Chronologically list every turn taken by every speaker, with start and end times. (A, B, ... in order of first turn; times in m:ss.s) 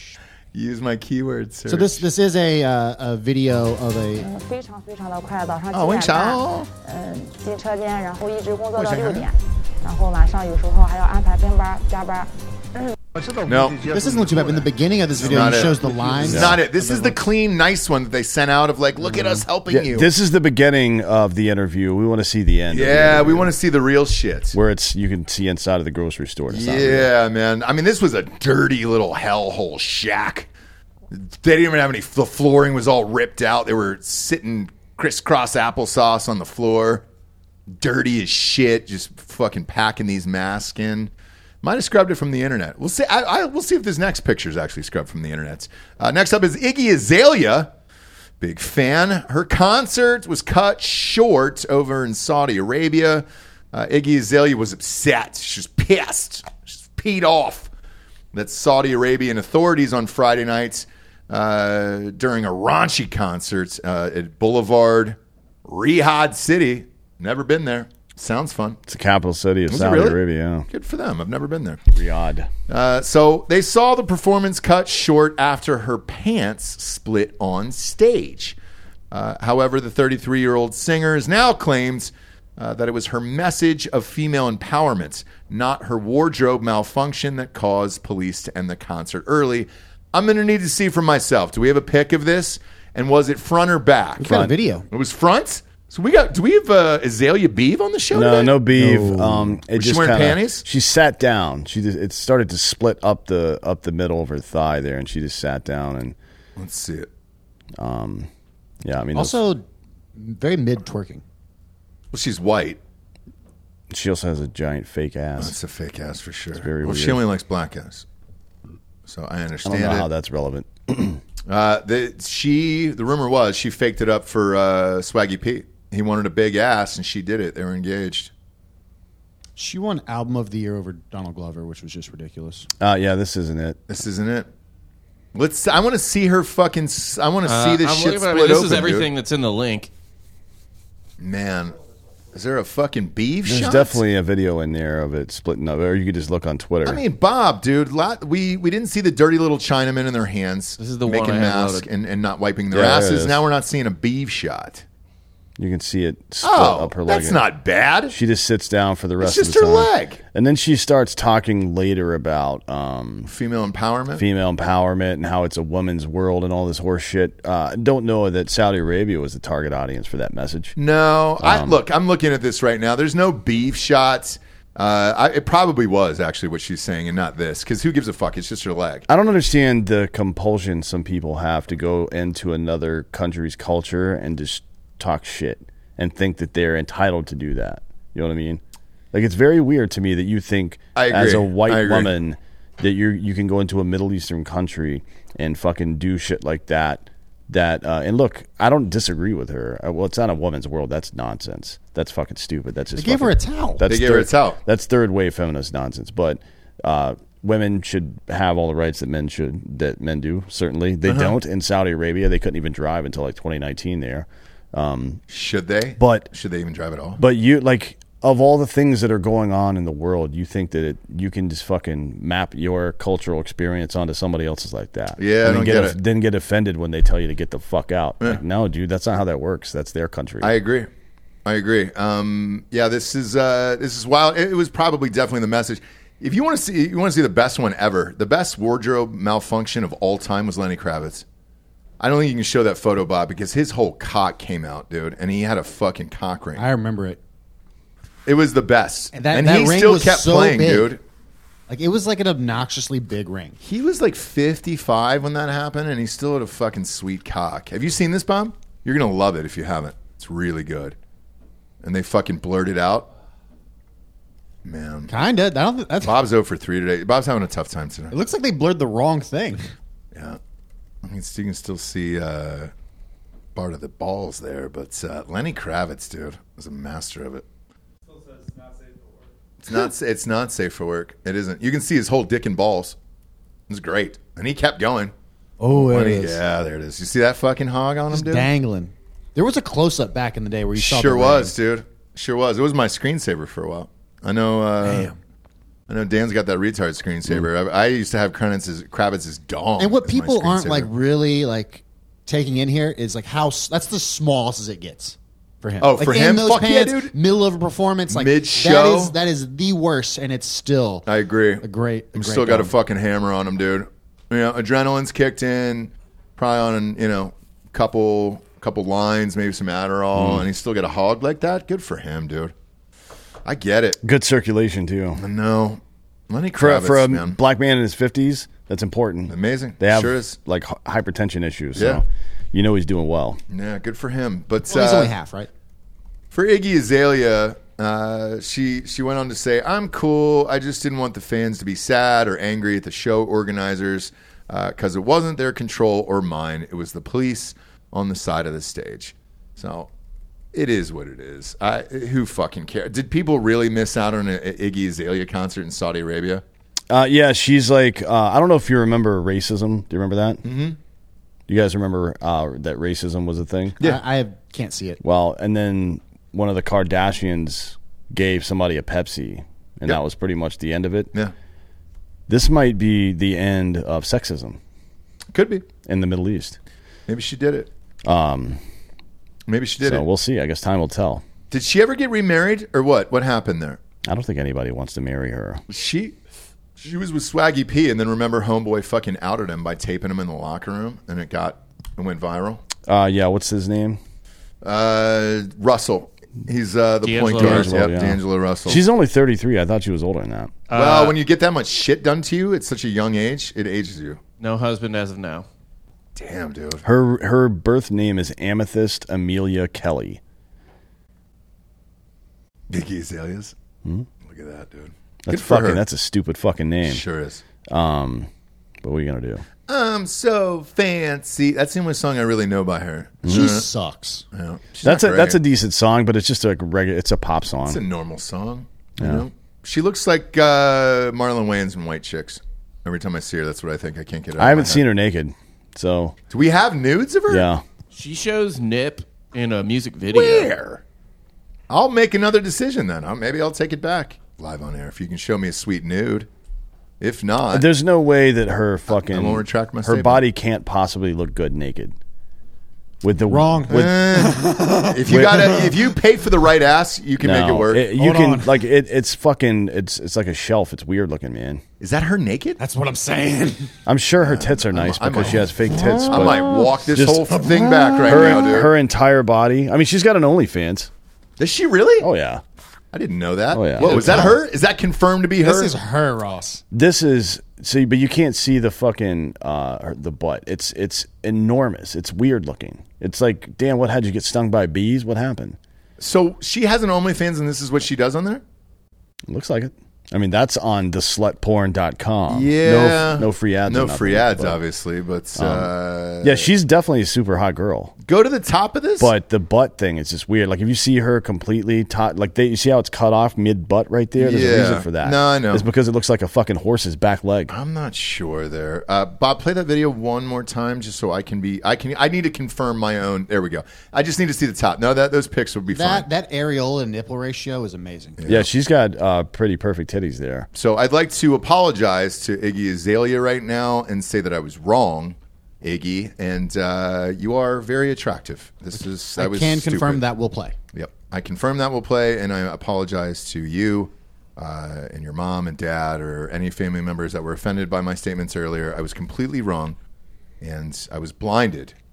0:00.5-0:02.1 A
0:01.7-0:04.3 B
0:04.2-0:12.9 C
0:05.7-0:06.7 A
0:08.8-0:09.3 A
0:13.5-0:13.9 A
0:13.8-0:17.1 B
0:15.2-0:20.1 A
0:16.3-0:16.6 D
0:19.7-0:23.6 D
0:22.7-0:24.6 A
0:24.5-0:27.1 D
0:26.5-0:30.5 A
0:31.1-0:37.0 A
0:37.7-0:41.1 A
0:41.6-0:47.7 A
0:48.4-0:57.7 A
0:58.3-1:08.8 A
1:08.9-1:10.7 D
1:09.7-1:11.8 A
1:11.9-1:12.5 D
1:12.7-1:18.6 A
1:19.1-1:38.7 A
1:34.2-1:34.9 B
1:38.1-1:46.2 D
1:38.8-1:39.6 B
1:39.7-1:40.6 A
1:46.6-1:47.1 A
1:47.8-1:48.3 D
1:48.8-1:49.4 D
1:49.2-1:49.6 B
1:50.2-1:51.2 B
1:52.1-1:52.8 A
1:53.9-1:55.6 D
1:55.4-1:58.0 A
1:56.6-1:57.2 D
1:59.1-2:00.1 A
1:59.6-2:01.2 D
2:01.5-2:08.3 A
2:09.6-2:12.7 B
2:12.8-2:13.8 D
2:13.9-2:14.5 A
2:15.3-2:19.1 A
2:17.4-2:19.9 E
2:21.2-2:21.8 A
2:22.3-2:24.0 A
2:23.4-2:27.0 D
2:26.8-2:34.8 A
2:30.8-2:31.9 E
2:32.7-2:33.4 D
2:35.6-2:37.4 D
2:36.4-2:38.2 A
2:38.1-2:43.3 D
2:39.2-2:40.2 A
2:43.3-2:44.2 A
2:44.2-2:50.8 D
2:50.8-2:59.1 A
2:51.4-2:51.8 D
2:59.1-3:08.6 D
3:09.1-3:35.2 D
3:11.0-3:12.1 A
3:23.0-3:23.9 B
3:23.8-3:24.6 A
3:31.0-3:31.4 A
3:35.3-3:37.2 A
3:36.0-3:36.3 D
3:37.2-3:50.5 D
3:45.2-3:46.0 A
3:50.4-3:50.9 A
3:51.5-4:01.2 A
4:02.0-4:06.6 A
4:06.6-4:07.2 B
4:08.3-4:11.0 A
4:09.1-4:11.0 B
4:11.7-4:13.6 B
4:13.6-4:21.0 A
4:21.8-4:23.1 A
4:24.6-4:25.1 A
4:25.1-4:26.2 B
4:26.0-4:28.2 A
4:28.1-4:29.6 B
4:30.1-4:30.4 A
4:31.0-4:32.7 A
4:33.6-4:37.4 A
4:39.6-4:43.0 A
4:43.7-4:45.1 A
4:45.6-4:46.4 B
4:45.7-4:48.5 A
4:48.1-4:51.5 B
4:50.8-4:55.1 A
4:54.8-4:55.2 B
4:55.9-5:00.9 A
4:59.8-5:11.1 B
5:05.8-5:07.1 A
5:08.1-5:09.2 A
5:11.1-5:22.5 A
5:11.6-5:12.7 B
5:20.1-5:20.5 D
5:23.4-5:24.0 A
5:24.0-5:25.2 D
5:25.2-5:27.4 A
5:26.6-5:33.4 D
5:29.3-5:30.4 A
5:31.8-5:32.0 A
5:33.5-5:35.1 A
5:34.7-5:35.5 B
5:36.3-5:49.9 A
5:50.5-5:56.4 A
5:56.9-6:00.4 D
6:00.4-6:00.8 A
6:01.5-6:03.8 D
6:03.8-6:05.0 B
6:05.0-6:11.1 D
6:12.3-6:14.6 D
6:15.3-6:15.7 A
6:15.9-6:16.6 D
6:17.1-6:17.7 A
6:18.0-6:18.6 D
6:19.5-6:20.0 A
6:19.8-6:21.2 D
6:21.5-6:23.8 A
6:24.1-6:25.6 D
6:25.7-6:26.2 A
6:26.8-6:32.6 A
6:32.9-6:34.0 D
6:34.6-6:38.8 A
6:37.0-6:37.8 E
6:37.4-6:40.6 D
6:40.7-6:41.2 E
6:40.7-6:44.2 A
6:44.4-6:45.5 E
6:46.2-6:46.8 A
6:46.8-6:50.2 D
6:52.7-6:53.6 A
6:54.2-6:55.8 A
6:55.3-6:57.0 D
6:56.9-6:57.4 A
6:57.7-6:58.3 D
6:58.8-6:59.4 D
6:59.7-7:03.7 A
7:03.2-7:03.6 D
7:03.3-7:04.2 B
7:04.3-7:05.4 A
7:04.8-7:07.8 D
7:07.7-7:14.8 A
7:09.0-7:09.2 D
7:14.4-7:16.2 D
7:16.3-7:17.5 A
7:17.3-7:17.6 D
7:17.9-7:20.5 E
7:20.1-7:20.8 A
7:21.7-7:26.3 A
7:27.0-7:27.7 A
7:27.5-7:32.0 D
7:29.1-7:30.2 A
7:33.0-7:34.0 D
7:33.3-7:35.7 B
7:33.7-7:37.8 A
7:35.1-7:35.5 D
7:37.2-7:41.6 D
7:38.0-7:38.6 B
7:41.8-7:42.6 A
7:42.6-7:43.7 B
7:43.9-7:50.9 D
7:44.2-7:48.7 A
7:47.9-7:48.3 B
7:51.4-7:52.1 A
7:52.0-7:52.4 D
7:52.9-7:55.7 A
7:53.5-7:54.4 D
7:53.8-7:54.4 B
7:55.4-7:56.6 B
7:56.7-8:05.6 D
8:06.0-8:08.4 A
8:09.3-8:14.6 D
8:12.3-8:16.5 A
8:15.4-8:15.7 D
8:16.2-8:17.9 D
8:18.0-8:19.1 A
8:19.0-8:27.5 D
8:24.2-8:25.7 A
8:27.5-8:36.1 A
8:35.7-8:38.2 B
8:38.2-8:38.5 A
8:38.3-8:40.5 D
8:40.5-8:50.0 A
8:49.2-8:50.6 B
8:50.7-8:59.8 A
9:00.4-9:01.8 A